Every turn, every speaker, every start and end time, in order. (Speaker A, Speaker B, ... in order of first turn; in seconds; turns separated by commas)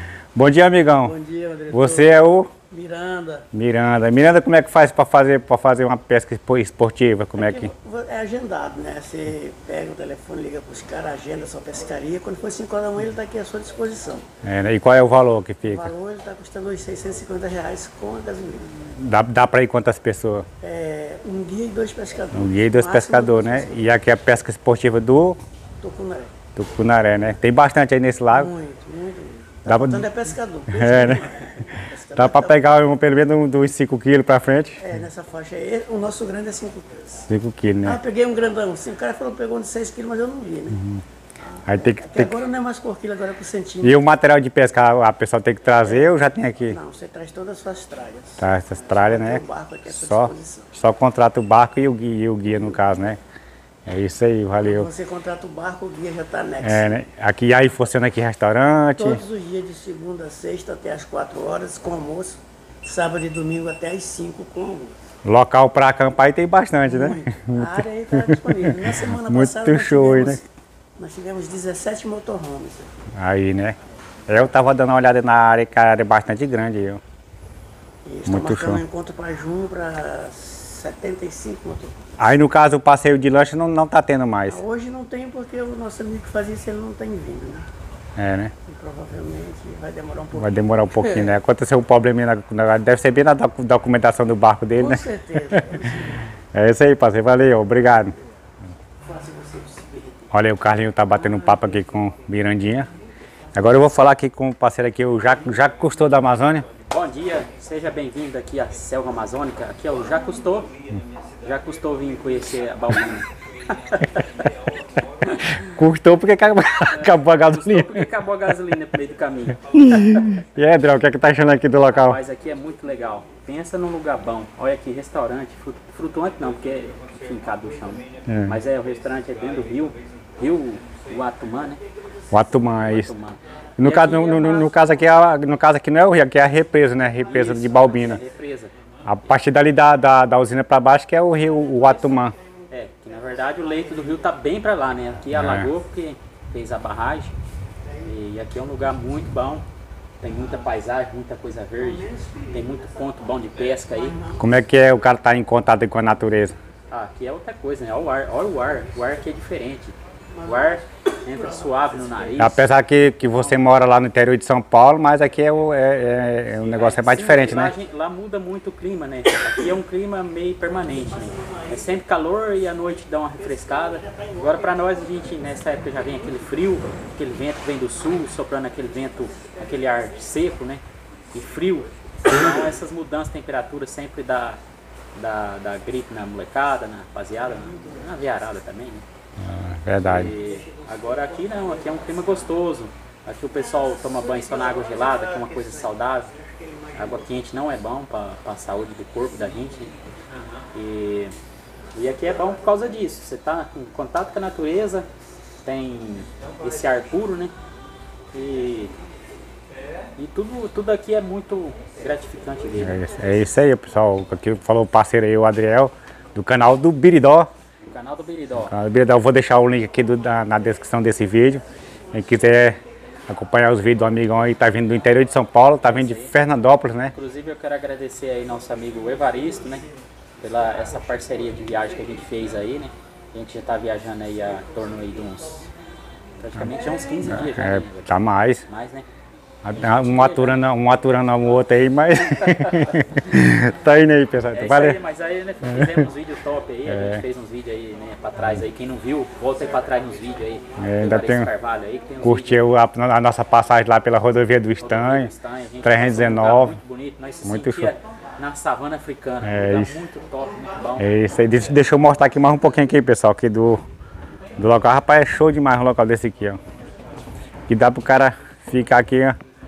Speaker A: 0.3-1.1, Speaker B: 1.0-3.5, Speaker A: 1.7-2.5, Speaker A: 3.5-7.7, Speaker B: 7.4-14.3, Speaker A: 14.4-15.9, Speaker B: 15.7-18.8, Speaker A: 18.9-20.5, Speaker B: 20.6-23.8, Speaker A: 22.3-25.4, Speaker B: 25.8-26.3, Speaker A: 26.5-28.5, Speaker B: 28.3-32.9, Speaker A: 29.6-30.1, Speaker A: 30.7-34.9, Speaker B: 34.8-37.2, Speaker A: 37.2-38.0, Speaker B: 37.8-40.8, Speaker A: 40.8-41.0, Speaker B: 41.4-44.0, Speaker A: 41.6-42.3, Speaker A: 43.8-46.8, Speaker B: 45.8-50.7, Speaker A: 48.4-53.2, Speaker A: 53.9-54.9, Speaker B: 54.6-57.0, Speaker A: 56.6-59.2, Speaker B: 59.0-65.0, Speaker A: 65.2-70.4, Speaker B: 66.8-72.9, Speaker A: 73.2-73.8, Speaker A: 74.3-77.0, Speaker B: 78.0-82.0, Speaker A: 78.2-78.8, Speaker A: 82.2-84.6, Speaker B: 84.5-87.7, Speaker A: 88.2-88.5, Speaker B: 88.7-91.3, Speaker A: 90.3-95.6, Speaker B: 94.7-96.3, Speaker A: 96.5-98.2, Speaker B: 99.0-100.3, Speaker A: 100.3-102.9, Speaker B: 101.2-101.7, Speaker A: 103.5-106.7, Speaker C: 106.9-110.7, Speaker C: 111.4-114.5, Speaker A: 115.4-118.1, Speaker C: 116.9-120.2, Speaker A: 119.7-122.2, Speaker C: 121.9-131.8, Speaker A: 128.2-128.6, Speaker A: 132.3-133.1, Speaker C: 132.6-134.7, Speaker A: 133.8-138.2, Speaker C: 137.2-138.7, Speaker A: 139.0-142.3, Speaker C: 142.7-147.3, Speaker B: 143.5-143.9, Speaker A: 145.3-145.7, Speaker C: 148.0-149.6, Speaker C: 150.2-154.2, Speaker B: 151.8-152.9, Speaker B: 153.8-154.4, Speaker A: 154.4-156.6, Speaker C: 156.9-162.7, Speaker B: 160.3-162.5, Speaker A: 162.4-167.7, Speaker C: 166.6-184.6, Speaker B: 171.1-171.9, Speaker B: 173.5-176.0, Speaker C: 185.1-189.0, Speaker A: 189.4-190.3, Speaker C: 190.0-196.3, Speaker B: 194.1-197.2, Speaker C: 196.9-199.9, Speaker C: 200.7-201.4, Speaker C: 201.9-205.1, Speaker C: 205.6-207.5, Speaker C: 208.3-208.9, Speaker C: 210.2-213.0, Speaker A: 212.8-217.5, Speaker C: 217.8-218.7, Speaker A: 218.6-227.1, Speaker C: 225.8-226.3, Speaker C: 227.1-229.9, Speaker C: 230.4-235.7, Speaker C: 236.4-239.1, Speaker A: 237.3-238.7, Speaker A: 239.6-245.0, Speaker C: 239.7-240.6, Speaker C: 244.5-252.7, Speaker A: 246.8-247.2, Speaker A: 250.8-251.5, Speaker A: 252.2-256.8, Speaker C: 254.8-261.1, Speaker A: 257.4-257.9, Speaker A: 259.4-260.0, Speaker A: 261.0-263.8, Speaker A: 264.6-266.6, Speaker A: 267.7-269.4